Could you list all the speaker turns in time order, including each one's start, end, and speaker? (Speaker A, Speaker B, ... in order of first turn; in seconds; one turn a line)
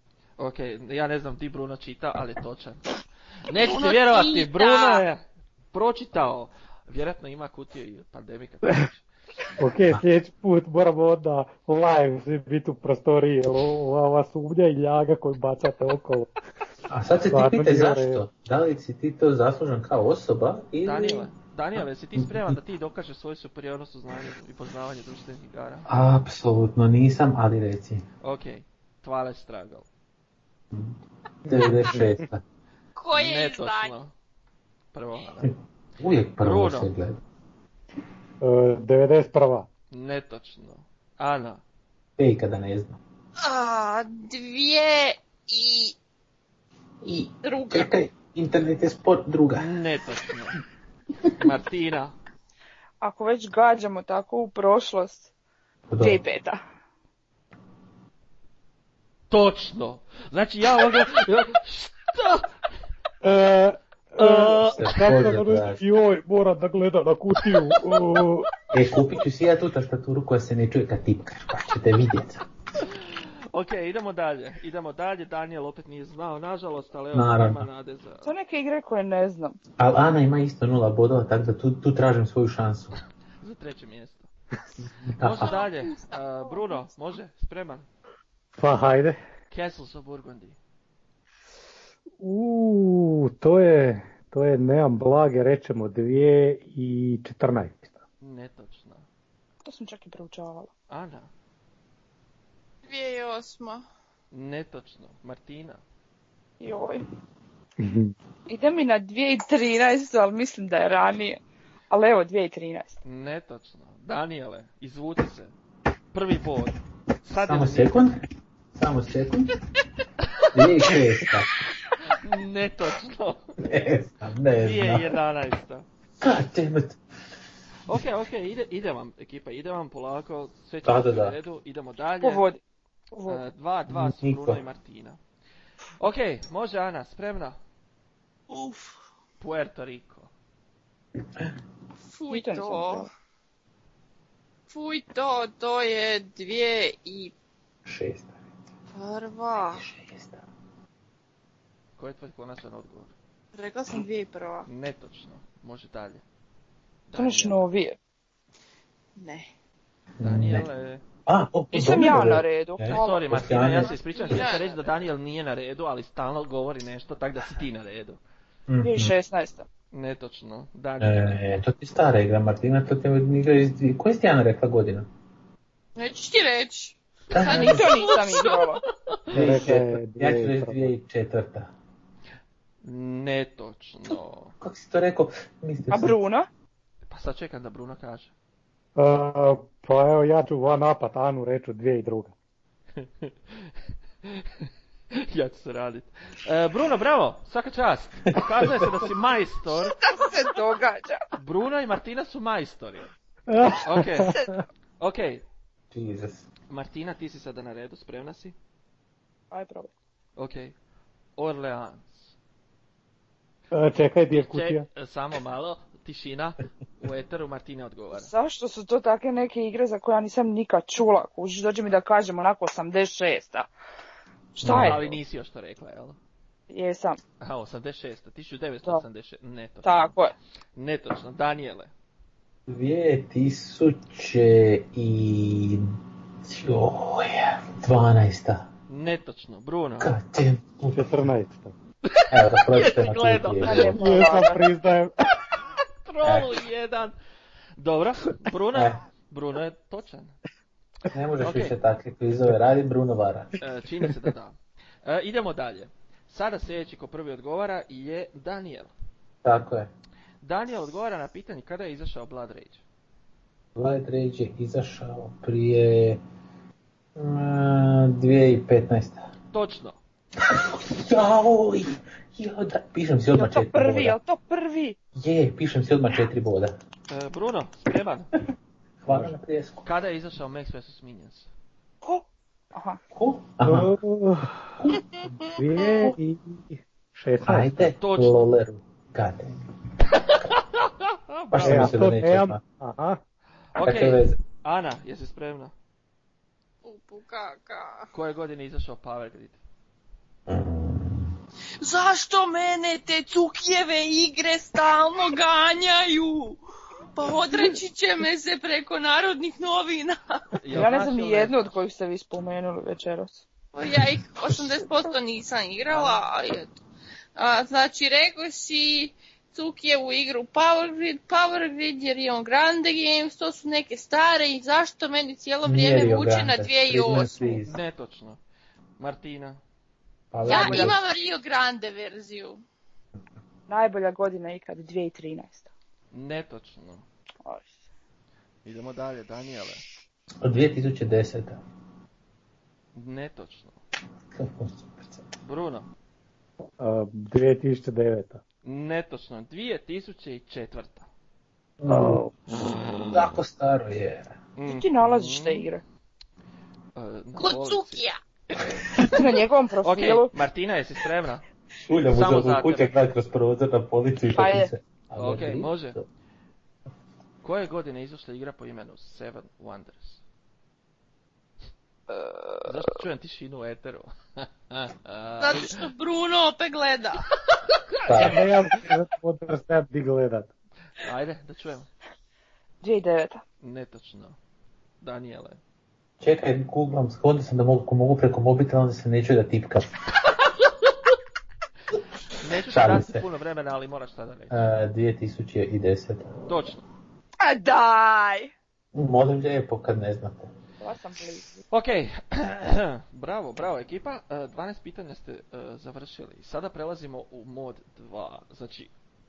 Speaker A: 0.4-2.8
Speaker A: 3.5-5.2
Speaker B: 3.5-5.0
Speaker A: 5.7-9.1
Speaker C: 9.6-16.3
Speaker D: 16.9-21.3
Speaker C: 17.3-18.2
Speaker A: 20.8-25.9
Speaker D: 22.2-22.5
Speaker D: 25.9-28.0
Speaker A: 28.2-29.9
Speaker D: 30.7-32.4
Speaker C: 31.6-32.2
Speaker B: 33.0-33.9
Speaker A: 33.1-34.1
Speaker A: 34.9-35.5
Speaker D: 36.0-37.2
Speaker A: 36.4-36.9
Speaker C: 38.4-39.7
Speaker A: 39.9-41.6
Speaker D: 42.2-43.0
Speaker B: 43.4-46.0
Speaker D: 47.0-49.7
Speaker B: 47.4-47.9
Speaker A: 49.5-50.6
Speaker A: 51.4-52.1
Speaker E: 53.0-55.3
Speaker D: 55.9-56.2
Speaker E: 56.0-56.6
Speaker A: 59.3-62.5
Speaker C: 63.2-68.5
Speaker A: 64.2-64.9
Speaker D: 64.6-65.8
Speaker D: 68.7-72.4
Speaker A: 73.5-78.3
Speaker D: 77.1-77.7
Speaker E: 78.2-79.6
Speaker D: 79.8-83.0
Speaker A: 83.4-84.3
Speaker D: 84.8-85.5
Speaker A: 85.2-87.9
Speaker B: 85.4-86.8
Speaker C: 88.6-89.2
Speaker A: 89.5-90.5
Speaker C: 92.2-98.0
Speaker A: 98.2-99.0
Speaker E: 99.6-100.7
Speaker A: 100.9-101.3
Speaker B: 102.8-103.8
Speaker A: 104.3-105.8
Speaker E: 106.6-107.0
Speaker C: 107.8-108.1
Speaker E: 108.5-113.0
Speaker A: 113.0-115.5
Speaker A: 116.1-118.1
Speaker D: 117.4-118.2
Speaker D: 118.7-119.5
Speaker A: 120.2-120.5
Speaker D: 120.5-121.5
Speaker A: 122.1-123.5
Speaker D: 123.6-125.1
Speaker A: 124.6-125.8
Speaker D: 126.2-127.0
Speaker A: 127.9-132.4
Speaker D: 130.8-131.3
Speaker E: 132.2-132.6
Speaker E: 133.1-133.4
Speaker A: 133.3-135.2
Speaker D: 133.9-134.6
Speaker A: 136.0-137.6
Speaker B: 138.5-138.9
Speaker A: 139.4-140.3
Speaker B: 142.1-143.1
Speaker E: 142.3-143.1
Speaker B: 144.7-147.3
Speaker D: 147.8-148.3
Speaker B: 148.9-149.8
Speaker D: 149.5-150.4
Speaker A: 152.0-153.1
Speaker B: 153.5-154.7
Speaker A: 154.7-156.2
Speaker A: 157.1-157.7
Speaker E: 157.1-158.0
Speaker B: 159.2-159.5
Speaker D: 160.2-160.7
Speaker A: 160.2-161.0
Speaker D: 161.2-163.9
Speaker E: 161.7-163.7
Speaker A: 162.9-168.2
Speaker B: 164.1-164.9
Speaker D: 168.7-169.1
Speaker E: 168.8-169.7
Speaker A: 169.9-171.4
Speaker D: 171.0-175.1
Speaker B: 175.9-178.6
Speaker D: 177.3-178.0
Speaker E: 177.4-178.8
Speaker A: 179.1-179.3
Speaker C: 179.3-180.9
Speaker D: 179.3-181.7
Speaker A: 182.8-184.5
Speaker D: 184.6-186.2
Speaker E: 185.9-186.5
Speaker A: 187.1-188.3
Speaker C: 188.9-192.3
Speaker A: 193.0-193.7
Speaker A: 194.2-199.9
Speaker E: 200.0-201.3
Speaker A: 201.4-203.1
Speaker C: 203.5-204.6
Speaker A: 203.8-204.3
Speaker A: 205.0-205.4
Speaker D: 205.9-206.4
Speaker A: 206.7-208.5
Speaker E: 209.5-209.9
Speaker A: 210.3-210.7
Speaker A: 211.4-212.3
Speaker C: 213.7-214.8
Speaker A: 214.3-218.3
Speaker E: 218.1-223.7
Speaker E: 224.6-225.0
Speaker D: 224.6-225.0
Speaker C: 224.6-224.9
Speaker A: 224.7-226.2
Speaker E: 226.7-227.2
Speaker A: 227.4-230.1
Speaker E: 229.8-230.3
Speaker A: 230.7-231.9
Speaker D: 232.7-235.9
Speaker D: 236.4-238.7
Speaker A: 238.9-240.1
Speaker D: 240.0-241.2
Speaker C: 240.9-241.7
Speaker A: 242.1-244.0
Speaker D: 242.3-244.0
Speaker E: 243.6-244.6
Speaker C: 243.9-245.1
Speaker A: 246.0-247.1
Speaker D: 246.2-246.5
Speaker A: 247.8-250.3
Speaker D: 248.7-249.0
Speaker D: 251.1-253.5
Speaker A: 251.4-251.8
Speaker A: 253.6-258.9
Speaker D: 259.4-259.9
Speaker A: 260.4-262.8
Speaker D: 263.8-266.2
Speaker D: 267.1-269.3
Speaker A: 269.5-270.0
Speaker D: 270.4-274.2
Speaker E: 273.4-275.0
Speaker D: 275.1-276.7
Speaker A: 277.1-278.3
Speaker D: 279.0-279.9
Speaker C: 279.1-279.3
Speaker A: 279.8-281.5
Speaker E: 282.0-283.0
Speaker D: 283.1-283.9
Speaker C: 283.6-287.9
Speaker D: 287.4-289.6
Speaker A: 288.0-288.4
Speaker A: 290.1-291.9
Speaker D: 291.5-292.6
Speaker C: 291.6-293.2
Speaker A: 293.7-295.7
Speaker D: 293.8-294.4
Speaker B: 296.8-298.1
Speaker A: 298.1-299.6
Speaker D: 300.5-301.3
Speaker B: 301.8-306.6
Speaker B: 307.1-310.4
Speaker A: 310.6-311.8
Speaker E: 310.7-313.4
Speaker B: 313.7-316.8
Speaker D: 314.0-314.6
Speaker A: 315.9-316.2
Speaker B: 317.4-327.6
Speaker D: 325.6-327.8
Speaker A: 327.6-328.4
Speaker A: 329.0-329.6
Speaker D: 330.3-331.0
Speaker E: 330.4-330.9
Speaker B: 330.4-332.6
Speaker E: 333.7-335.7
Speaker A: 336.1-337.0
Speaker E: 337.4-337.7
Speaker A: 338.6-339.8
Speaker D: 340.4-341.6
Speaker A: 342.9-343.8
Speaker D: 344.3-345.2
Speaker A: 345.4-345.9
Speaker C: 346.8-348.4
Speaker A: 348.6-351.1
Speaker D: 351.8-352.2
Speaker C: 351.9-352.2
Speaker D: 353.1-354.3
Speaker A: 354.6-355.7
Speaker E: 354.7-355.8
Speaker A: 356.9-359.2
Speaker B: 357.4-358.2
Speaker E: 359.0-360.3
Speaker A: 359.8-361.4
Speaker D: 361.8-366.0
Speaker A: 362.1-362.9
Speaker E: 364.3-364.7
Speaker A: 365.1-366.0
Speaker A: 367.4-370.2
Speaker E: 372.1-372.6
Speaker A: 372.6-375.9
Speaker B: 375.4-377.3
Speaker A: 378.1-378.4
Speaker D: 378.1-378.4
Speaker C: 378.1-380.5
Speaker A: 381.0-381.9
Speaker E: 382.8-383.4
Speaker A: 383.6-384.4
Speaker A: 385.0-385.6
Speaker D: 386.2-389.9
Speaker A: 392.4-394.6
Speaker D: 392.6-393.2
Speaker D: 394.5-396.3
Speaker A: 396.5-396.8
Speaker E: 397.4-398.5
Speaker D: 398.9-400.5
Speaker E: 400.8-401.6
Speaker A: 401.7-408.9